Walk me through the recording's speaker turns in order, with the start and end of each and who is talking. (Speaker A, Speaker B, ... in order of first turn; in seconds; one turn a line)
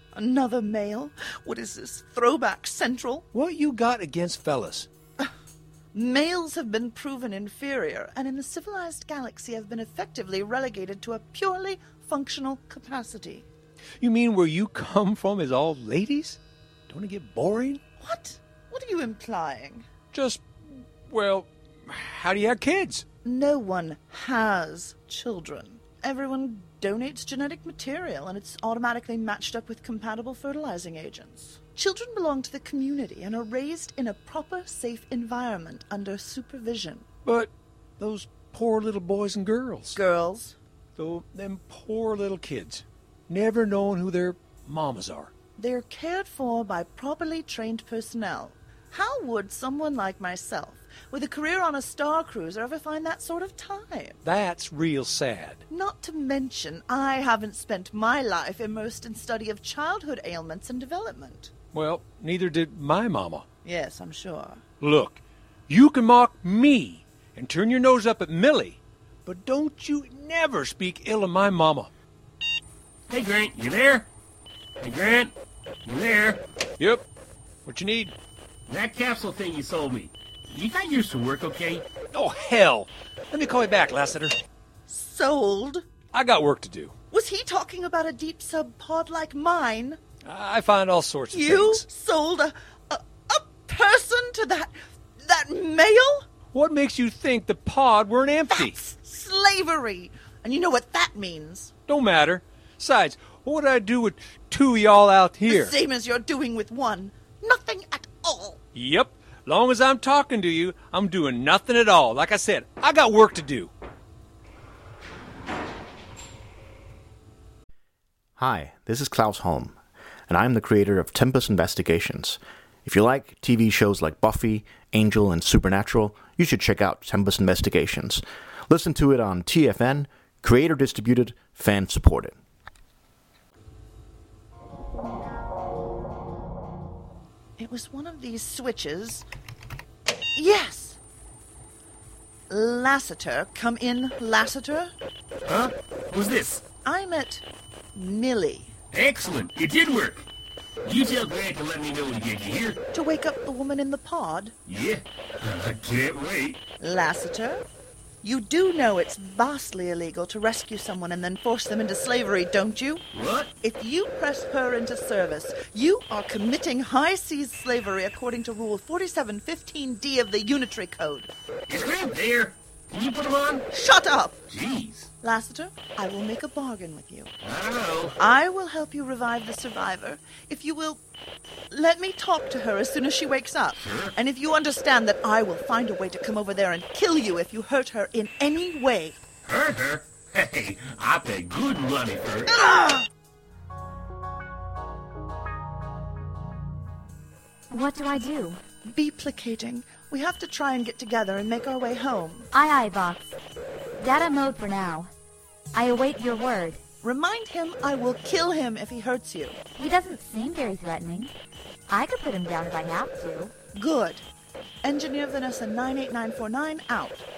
Speaker A: 0.1-3.3
Speaker B: 3.3-4.9
Speaker A: 5.9-13.5
Speaker B: 14.0-17.8
Speaker A: 18.0-19.9
Speaker B: 20.1-23.1
Speaker A: 23.2-37.0
Speaker B: 37.2-40.0
Speaker A: 39.9-40.6
Speaker B: 41.0-45.3
Speaker A: 45.6-54.2
Speaker B: 54.2-55.6
Speaker A: 55.7-61.5
Speaker B: 61.7-63.5
Speaker A: 63.6-64.6
Speaker B: 64.8-71.9
Speaker C: 73.1-74.1
Speaker C: 74.8-75.3
Speaker C: 75.8-76.4
Speaker B: 76.8-77.0
Speaker B: 77.7-78.2
Speaker C: 78.7-81.9
Speaker B: 82.1-84.4
Speaker A: 84.9-85.8
Speaker B: 86.1-87.0
Speaker A: 87.1-90.0
Speaker B: 90.2-91.9
Speaker A: 91.3-96.2
Speaker B: 96.5-98.8
Speaker A: 98.5-101.7
Speaker B: 101.9-105.8
Speaker A: 105.5-108.6
Speaker B: 108.8-113.7
Speaker D: 118.4-132.4
Speaker A: 137.6-139.3
Speaker A: 140.3-141.0
Speaker A: 142.5-144.9
Speaker C: 145.5-146.6
Speaker A: 146.8-147.4
Speaker A: 147.9-148.7
Speaker C: 148.9-150.2
Speaker C: 150.8-152.8
Speaker A: 152.9-154.6
Speaker C: 154.7-156.6
Speaker A: 156.8-157.6
Speaker A: 158.2-163.1
Speaker C: 163.1-163.5
Speaker A: 163.6-171.3
Speaker C: 171.7-173.7
Speaker A: 173.7-174.4
Speaker C: 174.5-175.1
Speaker A: 175.2-177.3
Speaker C: 177.4-178.2
Speaker A: 178.2-181.0
Speaker A: 181.7-189.2
Speaker C: 183.8-184.1
Speaker C: 189.4-192.6
Speaker A: 192.5-193.1
Speaker E: 197.7-198.6
Speaker A: 198.8-202.5
Speaker E: 202.5-203.4
Speaker E: 204.0-205.1
Speaker E: 205.7-206.8
Speaker A: 207.0-209.6
Speaker E: 209.8-211.3
Speaker E: 211.9-213.5
Speaker A: 213.8-214.2
Speaker A: 214.8-217.3